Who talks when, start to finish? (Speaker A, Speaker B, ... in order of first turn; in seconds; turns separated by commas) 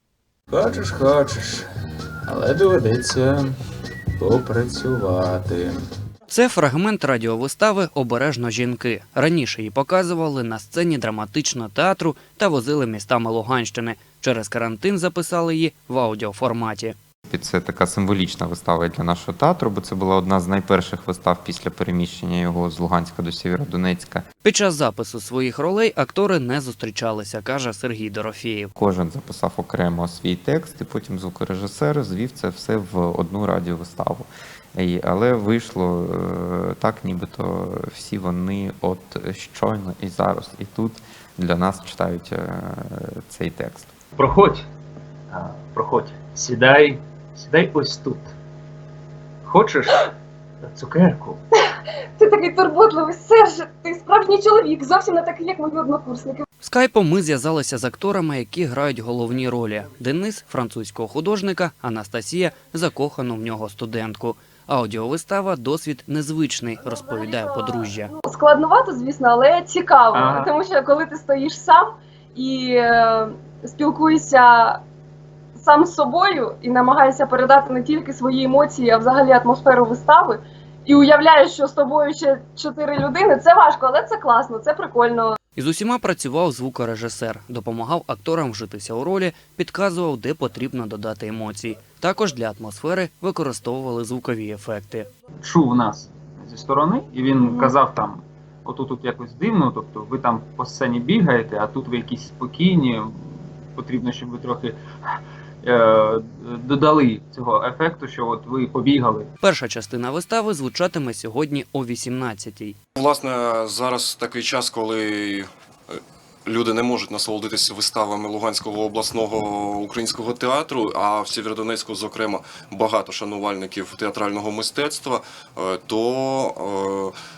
Speaker A: 0.5-1.6, Speaker A: 2.2-3.5, Speaker A: 4.2-5.8, Speaker B: 6.3-16.9, Speaker C: 17.3-24.2, Speaker B: 24.4-28.7, Speaker C: 28.8-43.9, Speaker D: 44.2-44.6, Speaker D: 45.3-48.3, Speaker D: 49.5-50.0, Speaker D: 50.6-51.4, Speaker E: 52.2-56.4, Speaker B: 56.6-68.1, Speaker E: 66.8-74.8, Speaker D: 70.1-70.5, Speaker E: 75.5-85.4, Speaker B: 85.5-95.1, Speaker D: 95.4-103.1, Speaker E: 97.4-97.7, Speaker D: 103.8-104.8, Speaker D: 105.6-109.3, Speaker B: 109.4-112.8, Speaker F: 113.0-127.1